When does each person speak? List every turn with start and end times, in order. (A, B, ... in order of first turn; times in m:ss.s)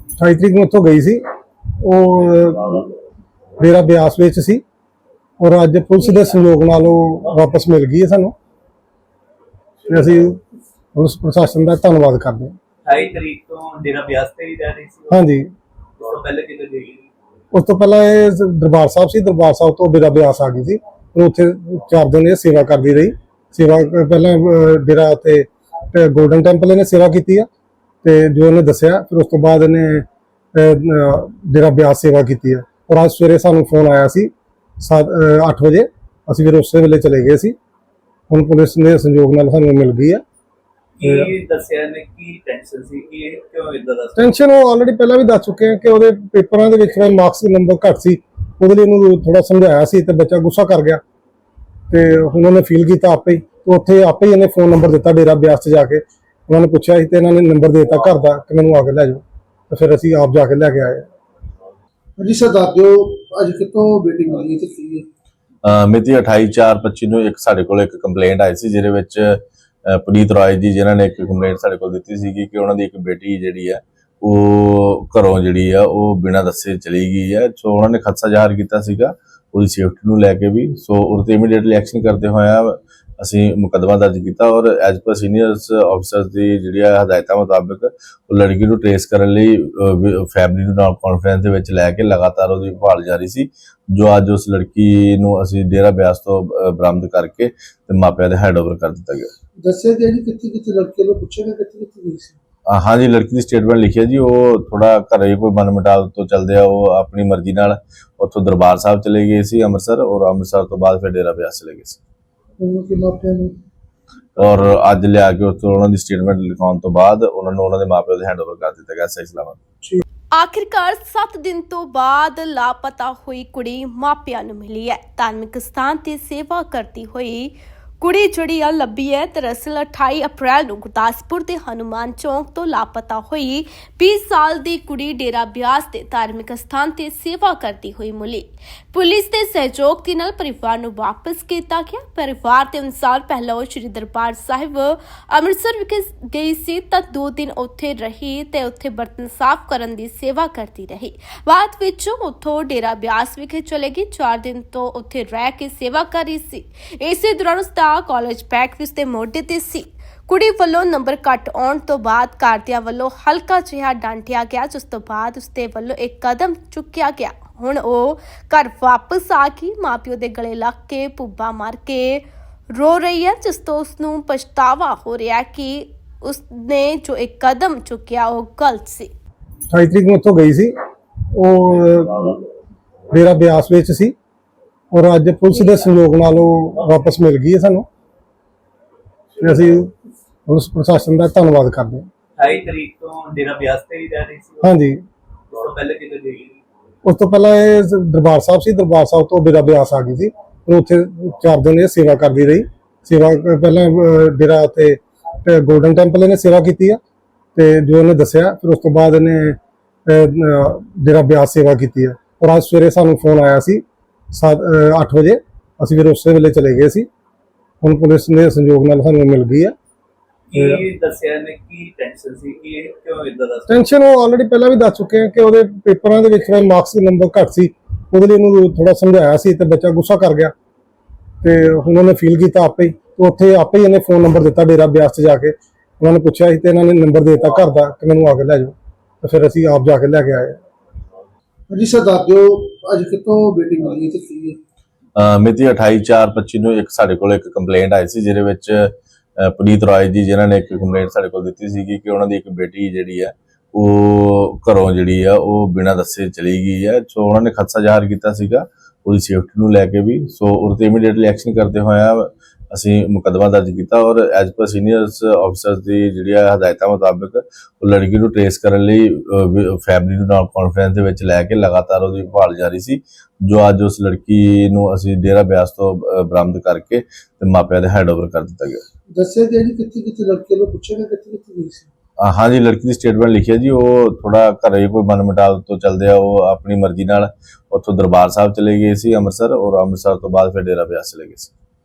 0:00.2-0:01.2 A
0:01.8-0:02.9 A
0:03.6-0:04.6 A
0:05.4-0:08.3 A
0:09.9-0:10.4 A
0:10.9-0:12.5 A
0:12.8-0:15.2 B
0:15.1-0:15.5 A
0:16.0-0:17.1 B
0:17.5-0:27.5 A
0:28.0-0:37.5 A
0:38.3-0:40.2 A
0:41.0-0:44.2 B
0:41.0-0:41.3 A
0:44.2-0:51.0 A
0:51.9-1:01.0 A
1:02.2-1:05.0 C
1:05.6-1:39.3 D
1:39.6-1:42.4 C
1:42.7-1:52.0 D
1:52.6-1:53.5 C
1:54.4-1:59.6 D
2:00.4-2:59.1 E
2:59.7-3:00.7 A
3:01.3-3:02.4 A
3:03.1-3:04.1 A
3:04.9-3:07.8 A
3:09.4-3:09.9 A
3:10.5-3:12.1 A
3:12.4-3:14.7 B
3:14.6-3:15.0 A
3:15.5-3:16.6 B
3:17.0-3:27.0 A
3:27.5-3:33.8 A
3:34.3-3:37.1 A
3:37.8-3:39.7 A
3:40.5-3:43.7 B
3:40.5-3:40.8 A
3:43.7-3:50.5 A
3:51.4-4:00.6 A
4:01.7-4:04.6 C
4:05.1-4:38.8 D
4:39.1-4:41.9 C
4:42.2-4:51.5 D